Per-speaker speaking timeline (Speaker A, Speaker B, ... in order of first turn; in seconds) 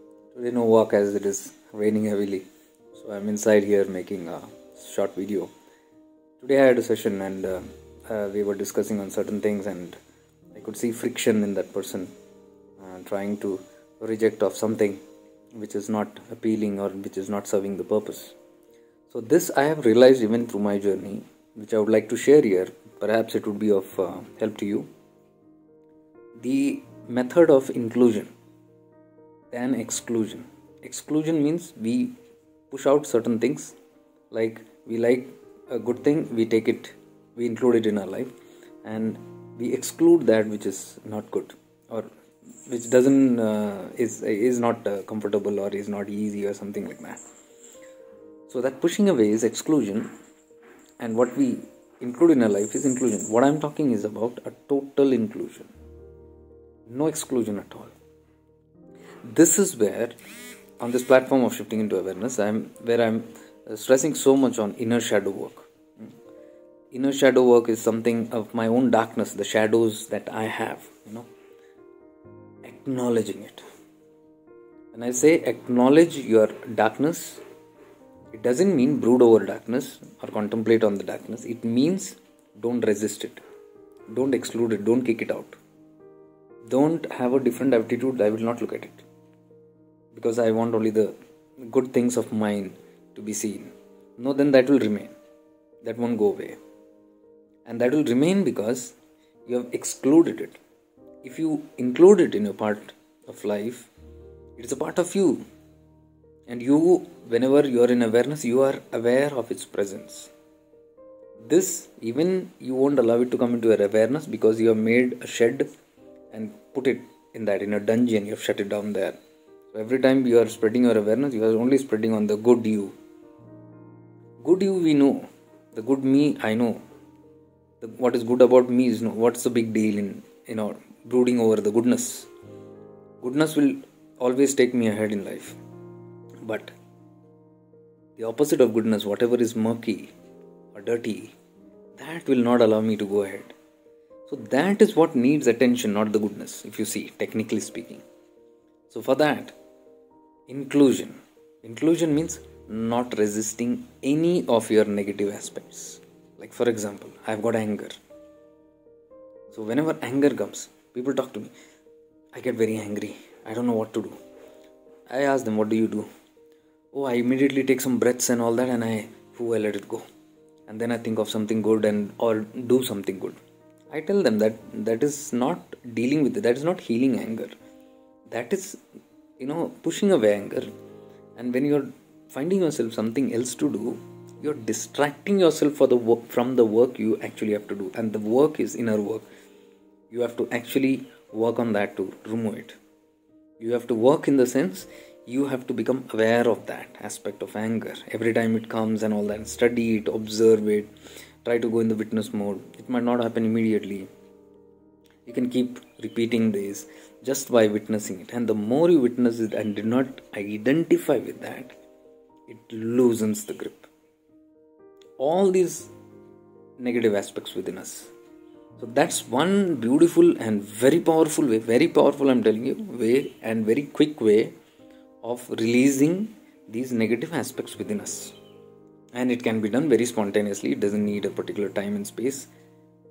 Speaker A: 0.3-5.5, 6.4-10.0, 10.5-12.1, 12.8-15.0, 15.5-18.4, 19.1-24.9, 26.4-28.3, 29.5-32.1, 32.7-33.7, 34.3-38.3, 38.8-42.1, 42.7-47.2, 48.5-50.1, 51.0-55.7, 56.9-57.9, 59.3-60.1, 60.8-66.1, 66.9-71.3, 72.7-73.6, 74.9-77.4, 78.3-83.4, 84.1-85.6, 86.7-89.1, 90.1-91.1, 91.7-95.1, 95.8-96.6, 97.7-99.0, 99.5-100.6, 101.2-103.9, 104.6-105.4, 106.5-110.3, 111.4-115.7, 116.3-119.2, 119.7-122.9, 124.4-126.8, 127.8-132.3, 133.2-135.6, 136.4-136.8, 138.2-140.1, 140.7-141.3, 142.0-143.5, 144.3-148.0, 148.9-149.6, 150.5-158.0, 159.5-161.5, 162.3-164.2, 165.1-166.1, 166.9-170.1, 170.7-173.4, 173.9-177.6, 178.3-178.8, 179.4-180.7, 181.4-189.2, 190.1-192.8, 193.6-200.9, 201.4-204.1, 205.2-211.8, 212.5-213.9, 215.2-215.9, 216.8-218.1, 218.8-224.5, 225.2-228.3, 229.1-232.5